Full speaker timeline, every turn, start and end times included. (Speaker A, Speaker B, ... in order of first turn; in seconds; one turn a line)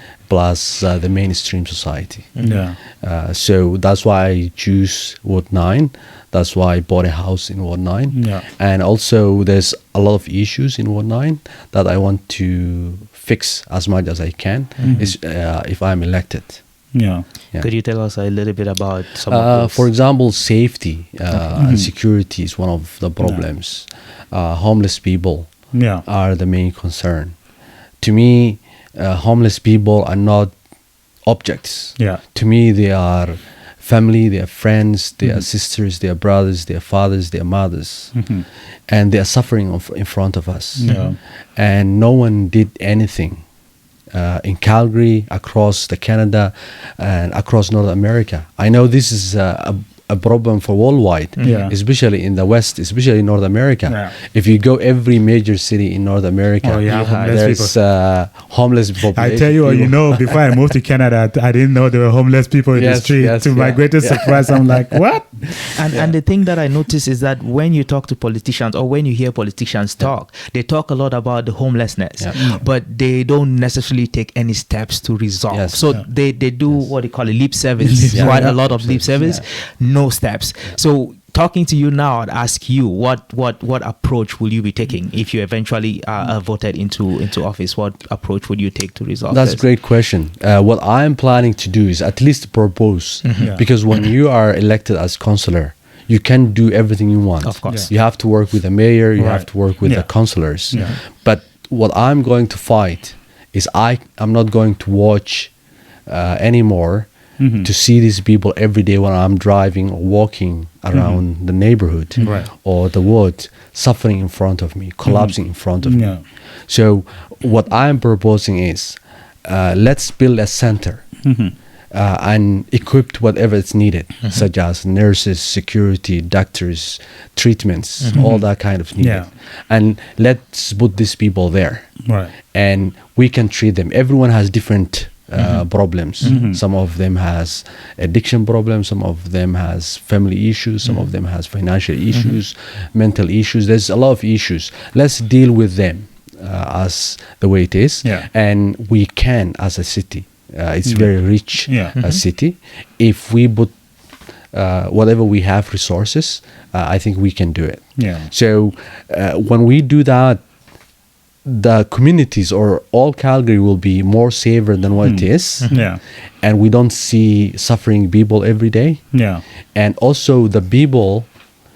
Speaker A: 0.3-2.4
Speaker B: 2.4-2.6
Speaker C: 2.4-2.8
Speaker A: 3.0-16.6
Speaker C: 8.1-8.4
Speaker B: 14.8-15.1
Speaker C: 14.8-15.1
Speaker C: 16.9-17.2
Speaker B: 17.6-19.9
Speaker A: 19.3-25.5
Speaker C: 21.5-21.9
Speaker C: 25.7-26.0
Speaker A: 26.1-27.4
Speaker A: 28.0-30.5
Speaker A: 31.3-38.1
Speaker C: 38.1-38.5
Speaker A: 38.9-41.0
Speaker C: 40.8-41.2
Speaker B: 40.9-41.1
Speaker A: 41.6-43.4
Speaker A: 44.1-60.4
Speaker B: 51.4-51.6
Speaker C: 51.4-51.7
Speaker C: 53.9-54.1
Speaker C: 56.6-57.8
Speaker B: 56.9-57.3
Speaker C: 59.1-65.8
Speaker A: 62.8-65.0
Speaker B: 65.7-89.6
Speaker C: 72.3-72.7
Speaker A: 75.5-75.8
Speaker C: 77.8-79.3
Speaker A: 78.1-79.4
Speaker A: 89.3-105.5
Speaker B: 93.2-94.1
Speaker C: 93.4-93.7
Speaker B: 97.4-97.9
Speaker C: 99.2-100.1
Speaker C: 100.7-101.0
Speaker A: 106.1-116.2
Speaker C: 107.4-107.7
Speaker C: 110.9-111.2
Speaker C: 112.2-112.5
Speaker C: 115.1-116.2
Speaker A: 116.7-121.0
Speaker C: 121.2-121.5
Speaker A: 121.9-131.9
Speaker B: 128.0-128.3
Speaker C: 128.1-128.5
Speaker C: 129.0-129.3
Speaker C: 132.1-132.3
Speaker A: 132.5-153.7
Speaker C: 136.2-136.6
Speaker C: 150.9-152.0
Speaker B: 151.9-152.2
Speaker A: 154.5-160.4
Speaker C: 158.0-158.3
Speaker A: 161.5-165.8
Speaker C: 165.0-166.0
Speaker B: 165.6-165.9
Speaker A: 166.4-169.0
Speaker C: 169.1-169.4
Speaker A: 169.8-171.3